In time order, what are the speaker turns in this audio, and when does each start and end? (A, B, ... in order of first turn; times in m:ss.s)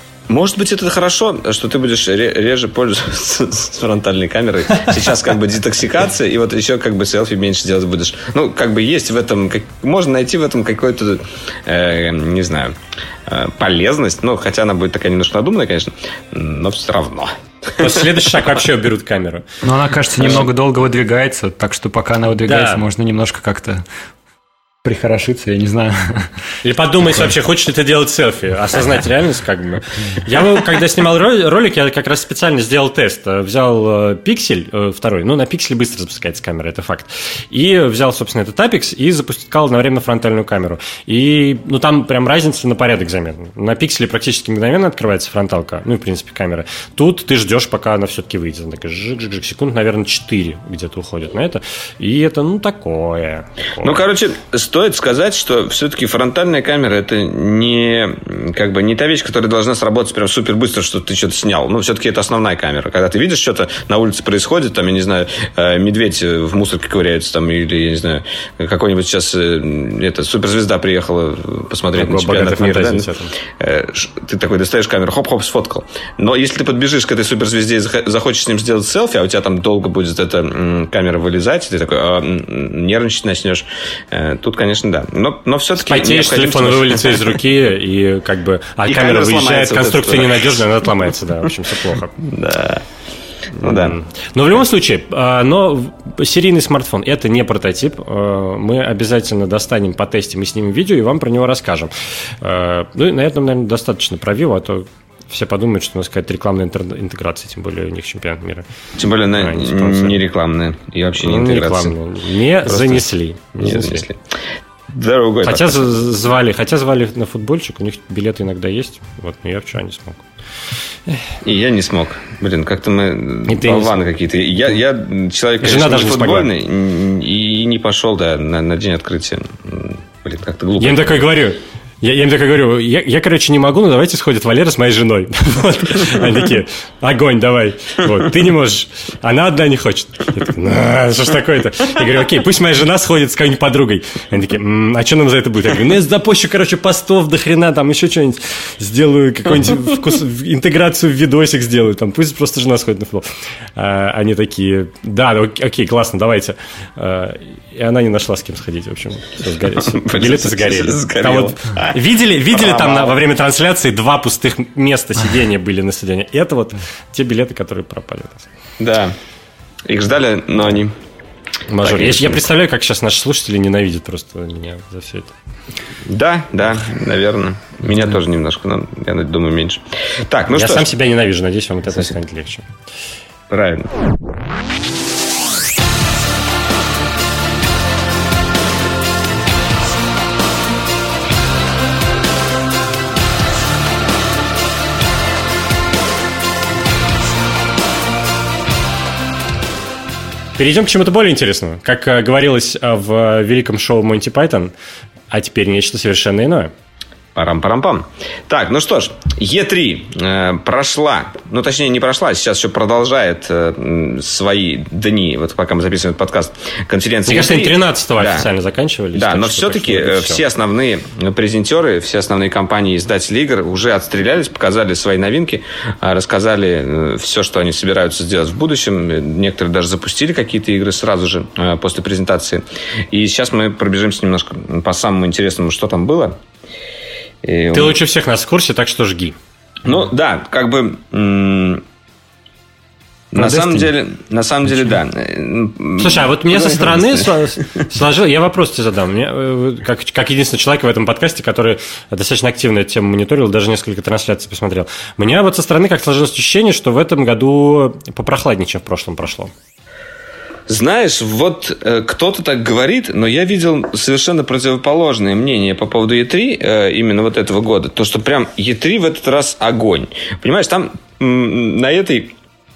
0:00.3-0:18.5 A
0:17.8-0:19.6 B
0:19.6-0:23.8 C
0:22.4-0:22.8 B
0:24.8-0:26.3 C
0:26.6-0:54.0 B
0:53.8-1:27.4 A
1:11.9-1:13.3 B
1:25.8-1:32.1 B
1:28.8-1:30.6 A
1:32.2-1:32.8 A
1:33.5-1:34.0 A
1:33.6-1:48.6 B
1:49.0-1:52.0 A
1:49.3-1:50.2 B
1:51.1-1:54.1 B
1:52.6-1:53.0 A
1:53.6-1:55.9 A
1:55.4-2:00.2 B
2:01.4-2:11.3 A
2:03.5-2:04.0 B
2:05.6-2:06.5 B
2:10.8-2:48.5 B
2:39.8-2:43.2 A
2:48.8-2:49.2 A
2:49.8-2:51.0 A
2:51.7-2:55.3 B
2:51.8-2:52.5 A
2:56.0-3:00.9 A
3:00.5-3:02.7 B
3:03.5-3:03.9 A
3:20.6-3:24.7 B
3:25.3-3:26.7 B
3:27.4-3:38.5 A
3:37.3-3:40.4 B
3:39.1-3:56.4 A
3:57.4-3:58.0 A
3:57.7-3:59.4 B
3:59.8-4:01.8 A
4:03.3-4:07.4 A
4:03.4-4:03.9 C
4:06.0-4:19.5 B
4:20.7-4:32.3 A